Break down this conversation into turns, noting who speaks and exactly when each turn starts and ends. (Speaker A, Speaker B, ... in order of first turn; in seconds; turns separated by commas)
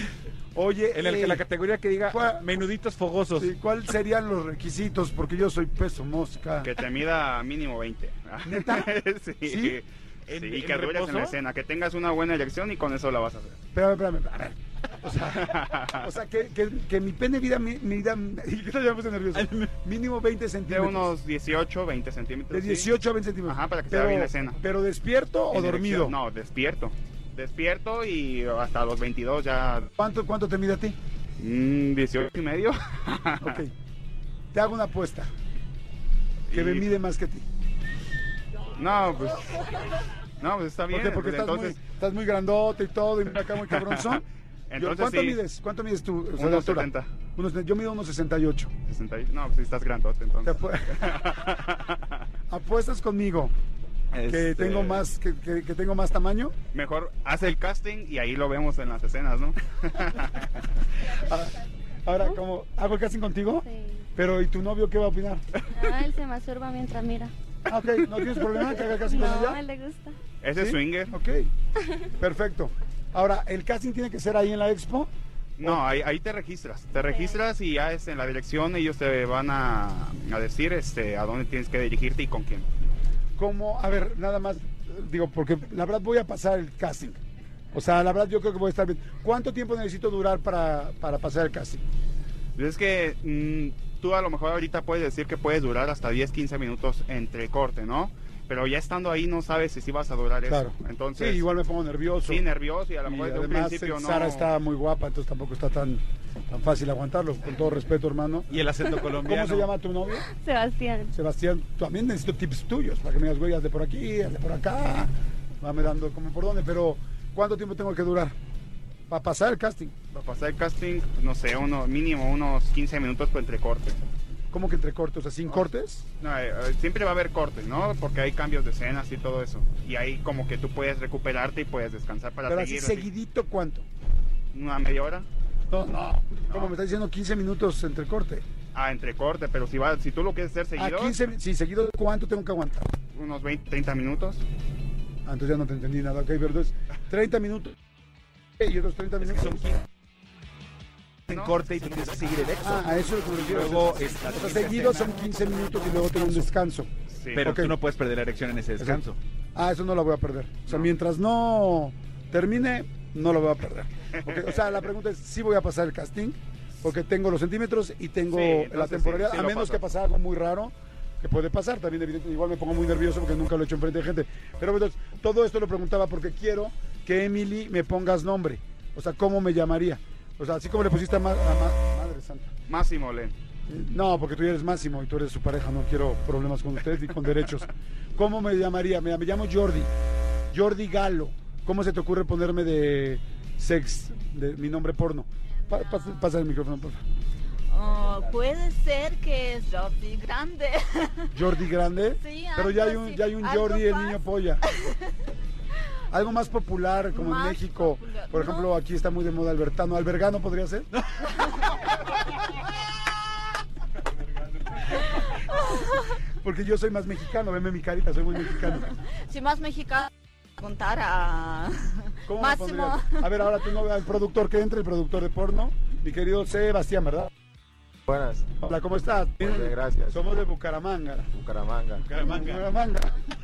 Speaker A: 0.5-1.4, Speaker B: 0.9-3.5, Speaker A: 2.1-2.5, Speaker A: 3.3-6.7, Speaker C: 6.6-13.6, Speaker A: 8.4-9.8, Speaker B: 10.3-11.4, Speaker A: 13.7-21.1, Speaker C: 15.4-16.1, Speaker B: 19.4-19.7, Speaker C: 20.7-22.9, Speaker A: 22.5-26.2, Speaker C: 23.4-24.6, Speaker C: 25.5-29.9, Speaker A: 30.0-31.0, Speaker C: 31.4-33.6, Speaker A: 33.4-33.7, Speaker A: 34.5-35.3, Speaker C: 36.5-36.9, Speaker A: 36.5-37.5, Speaker C: 38.7-41.8, Speaker A: 40.9-44.2, Speaker C: 43.7-45.4, Speaker A: 44.8-48.7, Speaker C: 46.4-47.1, Speaker C: 48.9-52.2, Speaker A: 50.4-51.3, Speaker A: 52.5-53.5, Speaker C: 54.2-55.0, Speaker A: 54.3-56.5, Speaker C: 56.7-60.6, Speaker A: 61.1-65.4, Speaker D: 63.6-64.1, Speaker D: 65.7-67.3, Speaker A: 67.7-69.6, Speaker D: 68.6-70.2, Speaker C: 70.4-71.2, Speaker A: 70.6-71.5, Speaker A: 72.2-75.8, Speaker C: 75.6-82.7, Speaker D: 77.1-77.3, Speaker A: 83.4-87.2, Speaker A: 87.7-91.8, Speaker C: 92.5-101.5, Speaker A: 100.5-102.4, Speaker C: 102.2-104.5, Speaker A: 103.0-110.2, Speaker B: 108.5-109.7, Speaker D: 110.2-111.1, Speaker A: 111.1-118.3, Speaker A: 119.1-120.0, Speaker C: 120.1-124.0, Speaker A: 124.5-126.0, Speaker C: 126.2-133.1, Speaker A: 132.5-133.8, Speaker C: 134.5-135.3, Speaker A: 135.7-138.4, Speaker C: 138.7-141.2, Speaker A: 140.8-142.9, Speaker C: 143.1-144.4, Speaker A: 145.2-147.8, Speaker A: 148.6-149.6, Speaker B: 149.2-149.8, Speaker B: 151.3-155.1, Speaker C: 151.3-151.7, Speaker A: 152.6-157.8, Speaker C: 157.1-157.5, Speaker B: 157.3-159.2, Speaker A: 158.8-159.0, Speaker A: 159.6-182.5, Speaker C: 164.2-164.6, Speaker C: 168.3-169.8, Speaker C: 182.7-183.3, Speaker A: 183.7-189.9, Speaker A: 190.5-197.0, Speaker E: 195.7-196.3, Speaker E: 197.7-201.4, Speaker A: 201.3-204.6, Speaker E: 202.1-205.1, Speaker A: 206.1-210.9, Speaker E: 207.1-208.7, Speaker E: 215.5-216.1, Speaker A: 216.4-218.9, Speaker E: 219.2-223.3, Speaker A: 222.2-227.3, Speaker F: 228.1-228.6, Speaker A: 228.6-231.3, Speaker F: 229.4-230.2, Speaker F: 231.3-232.1, Speaker A: 232.0-233.2, Speaker B: 232.1-232.6